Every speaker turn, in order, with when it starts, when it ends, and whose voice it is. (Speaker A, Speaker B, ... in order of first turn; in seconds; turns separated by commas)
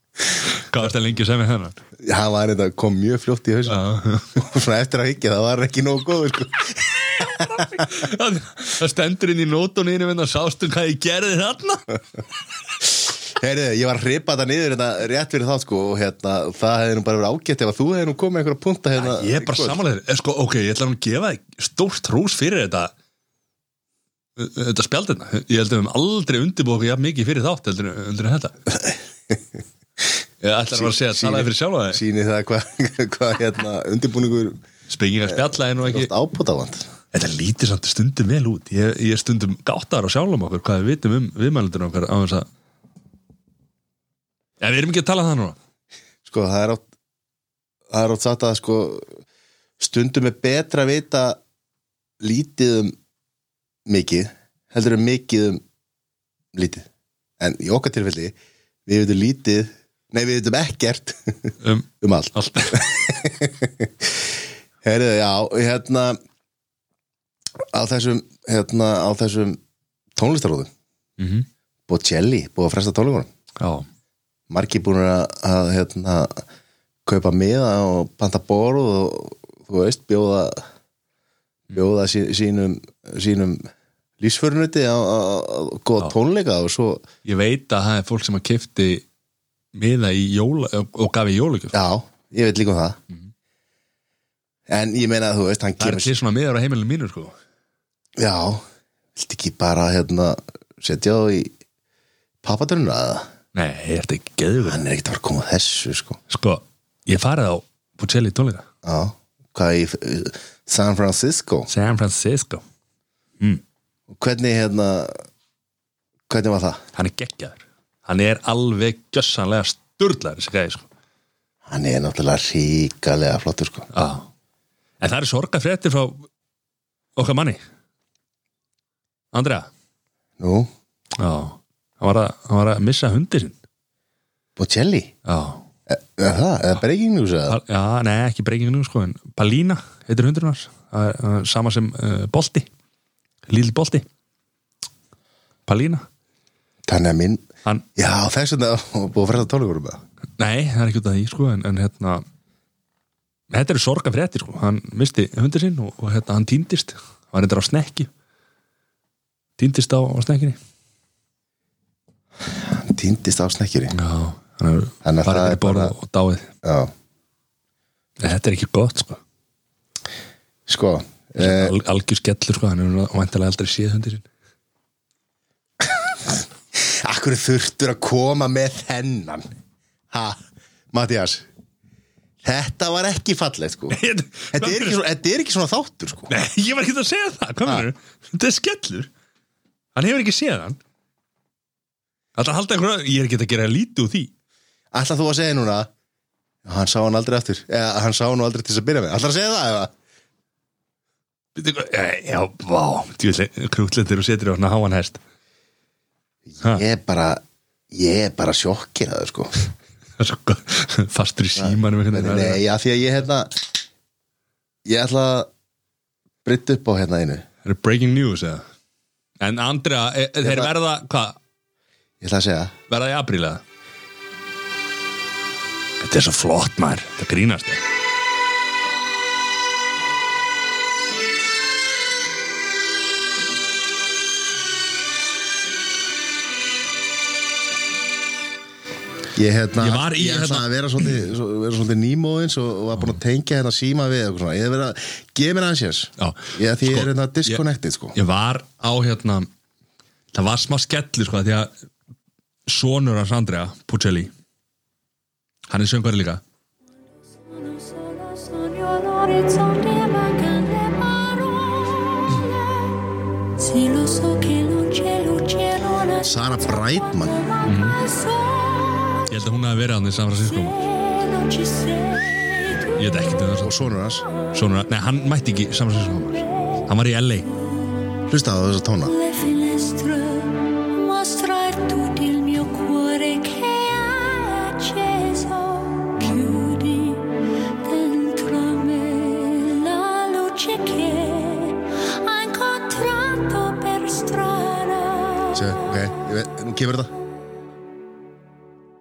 Speaker A: 0.5-1.8, Speaker B: 2.0-3.8, Speaker A: 3.7-4.3, Speaker B: 4.3-7.7, Speaker A: 7.2-12.0, Speaker B: 13.1-19.8, Speaker A: 18.9-22.9, Speaker A: 24.4-28.6, Speaker B: 28.7-29.4, Speaker A: 30.4-32.0, Speaker B: 30.7-34.6, Speaker A: 34.9-36.1, Speaker B: 35.2-36.9, Speaker A: 37.1-42.5, Speaker A: 44.6-45.6, Speaker B: 46.2-46.8, Speaker B: 47.9-49.1, Speaker B: 49.8-51.4, Speaker B: 52.2-53.0, Speaker B: 53.9-55.6, Speaker B: 56.5-56.9, Speaker B: 57.4-58.3, Speaker B: 58.9-64.3, Speaker A: 61.6-62.8, Speaker B: 64.8-66.2, Speaker B: 67.7-69.6, Speaker B: 70.2-70.7, Speaker A: 71.2-71.5, Speaker B: 71.9-73.3, Speaker A: 73.6-73.8, Speaker B: 74.5-76.4, Speaker B: 77.0-80.6, Speaker B: 81.7-83.7, Speaker B: 84.2-87.0, Speaker A: 87.2-89.0, Speaker A: 89.7-91.7, Speaker B: 91.7-93.0, Speaker B: 94.7-96.1, Speaker A: 95.8-97.3, Speaker B: 98.2-98.6, Speaker B: 99.2-101.5, Speaker B: 102.4-103.3, Speaker A: 103.5-104.8, Speaker B: 104.6-106.2, Speaker A: 106.3-108.6, Speaker B: 108.8-111.7, Speaker A: 111.7-112.6, Speaker B: 114.1-115.2, Speaker B: 116.3-116.8, Speaker A: 116.9-120.9, Speaker B: 121.7-123.9, Speaker A: 123.9-124.3, Speaker A: 125.0-126.3, Speaker A: 127.2-127.6, Speaker A: 129.3-129.7, Speaker B: 130.4-130.7, Speaker A: 131.2-133.6, Speaker B: 134.6-135.1, Speaker A: 135.2-135.6, Speaker B: 135.9-137.6, Speaker A: 137.5-142.7, Speaker A: 143.5-144.0, Speaker A: 145.7-146.1, Speaker B: 146.8-147.4, Speaker B: 147.9-150.0, Speaker A: 150.4-152.2, Speaker A: 153.5-158.1, Speaker A: 159.6-160.6, Speaker B: 162.5-163.9, Speaker A: 163.9-166.5, Speaker B: 165.0-165.9, Speaker B: 166.6-166.9, Speaker A: 168.2-169.2, Speaker B: 170.7-171.7, Speaker A: 171.3-174.2, Speaker B: 175.8-179.5, Speaker B: 180.1-181.4, Speaker B: 182.4-184.0, Speaker A: 183.9-185.0, Speaker B: 184.5-186.3, Speaker A: 186.3-189.1, Speaker A: 189.9-190.8, Speaker A: 192.3-194.3, Speaker B: 194.9-195.9, Speaker B: 196.6-199.9, Speaker A: 201.6-205.2, Speaker B: 206.5-209.6, Speaker A: 210.2-212.6, Speaker B: 211.6-213.7, Speaker B: 214.8-215.5, Speaker B: 216.4-217.4, Speaker A: 217.6-218.6, Speaker A: 219.4-221.4, Speaker B: 220.4-220.7, Speaker B: 222.2-222.7, Speaker A: 222.9-223.6, Speaker A: 226.0-227.8, Speaker B: 239.3-248.1, Speaker A: 239.8-240.7, Speaker A: 246.2-247.6, Speaker A: 248.1-249.5, Speaker A: 250.3-251.7, Speaker A: 252.7-254.3, Speaker A: 255.7-256.4, Speaker C: 257.4-262.9, Speaker C: 263.6-269.2, Speaker B: 266.2-267.3, Speaker A: 267.6-268.0, Speaker A: 269.3-270.8, Speaker C: 270.7-273.0, Speaker A: 273.0-273.7, Speaker B: 273.6-274.3, Speaker A: 274.5-277.5, Speaker B: 278.3-279.1, Speaker C: 279.1-295.8, Speaker B: 295.5-297.1